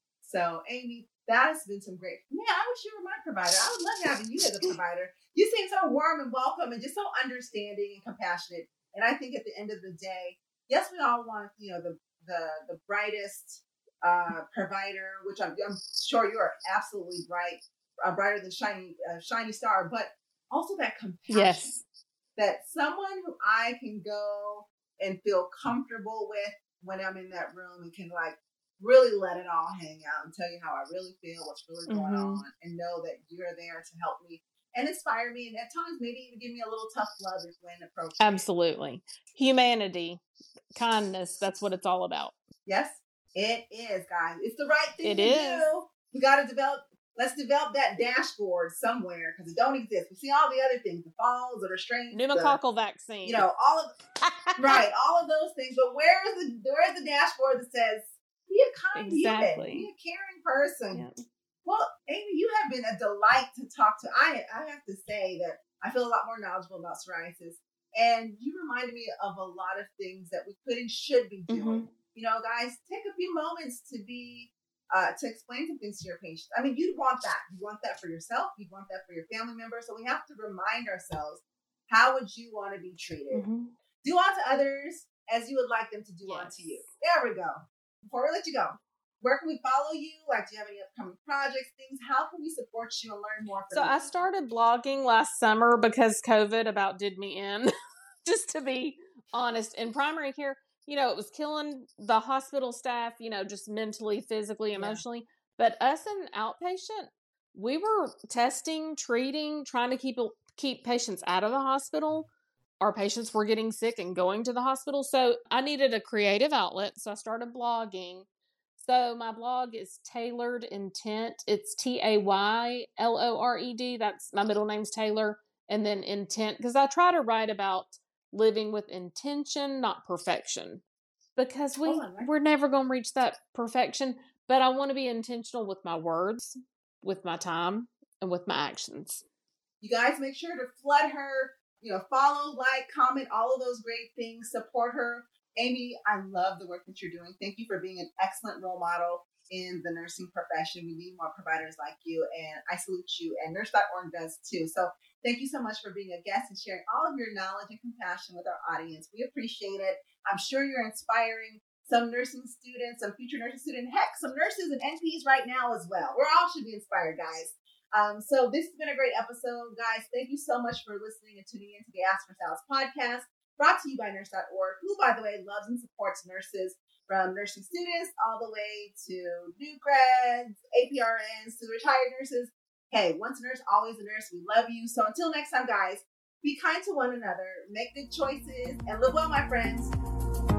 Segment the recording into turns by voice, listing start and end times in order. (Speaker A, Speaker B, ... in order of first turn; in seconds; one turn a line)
Speaker A: 0.2-21.8
Speaker B: 21.3-21.8
Speaker A: 22.4-38.4
Speaker B: 31.9-32.4
Speaker B: 38.2-40.2
Speaker B: 40.7-42.3
Speaker A: 42.6-52.6
Speaker B: 45.0-45.7
Speaker B: 52.1-53.5
Speaker A: 53.2-53.9
Speaker B: 54.2-54.8
Speaker A: 54.6-61.1
Speaker B: 58.9-59.9
Speaker B: 60.9-61.2
Speaker A: 61.6-83.5
Speaker B: 71.5-71.9
Speaker B: 83.3-83.7
Speaker A: 84.0-94.1
Speaker B: 86.2-86.9
Speaker B: 93.7-97.7
Speaker B: 98.2-112.3
Speaker A: 104.7-105.0
Speaker B: 112.8-130.8
Speaker B: 131.3-139.2
Speaker A: 131.8-132.3
Speaker A: 139.8-189.9